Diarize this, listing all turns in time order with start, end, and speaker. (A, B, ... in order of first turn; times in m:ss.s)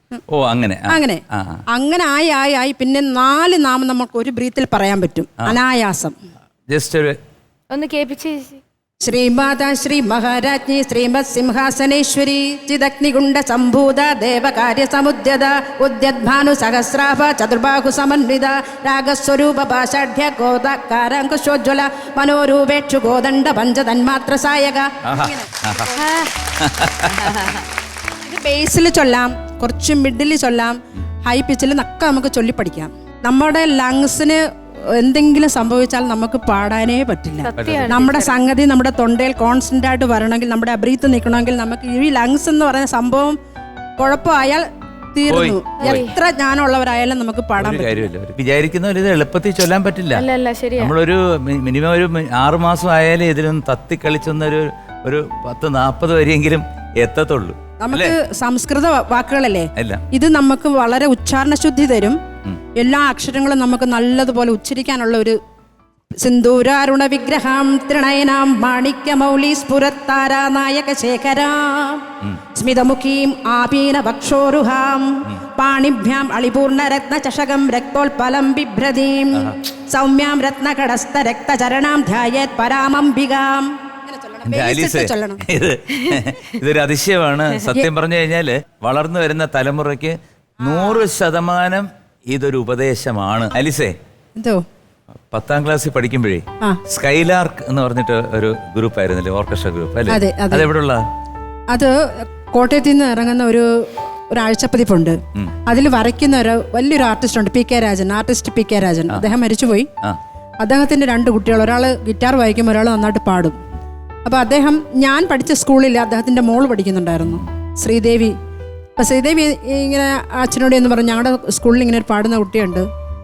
0:00.3-0:01.6 A
0:00.9-0:06.1 B
0:06.7-0:07.2 A
0:07.7-0:08.6 C
0:09.0-0:25.7 B
0:25.0-0:27.4 A
0:25.9-0:26.4 C
0:27.1-0:27.6 C
0:28.2-0:43.3 B
0:37.4-0:38.3 C
0:37.6-0:37.9 A
0:44.0-0:48.1 B
0:45.3-0:46.0 A
0:45.8-0:46.2 C
0:47.6-0:50.2 A
0:50.1-0:50.9 C
0:50.8-0:58.1 A
0:57.8-1:02.2 B
0:59.8-1:00.0 A
1:02.8-1:05.4 B
1:06.2-1:12.0 B
1:12.6-1:25.4 B
1:24.5-1:33.9 A
1:30.7-1:31.0 B
1:35.3-1:41.0 A
1:40.1-1:40.7 B
1:42.5-1:49.9 B
1:50.6-1:53.6 B
1:54.2-1:58.3 B
1:59.0-2:02.9 B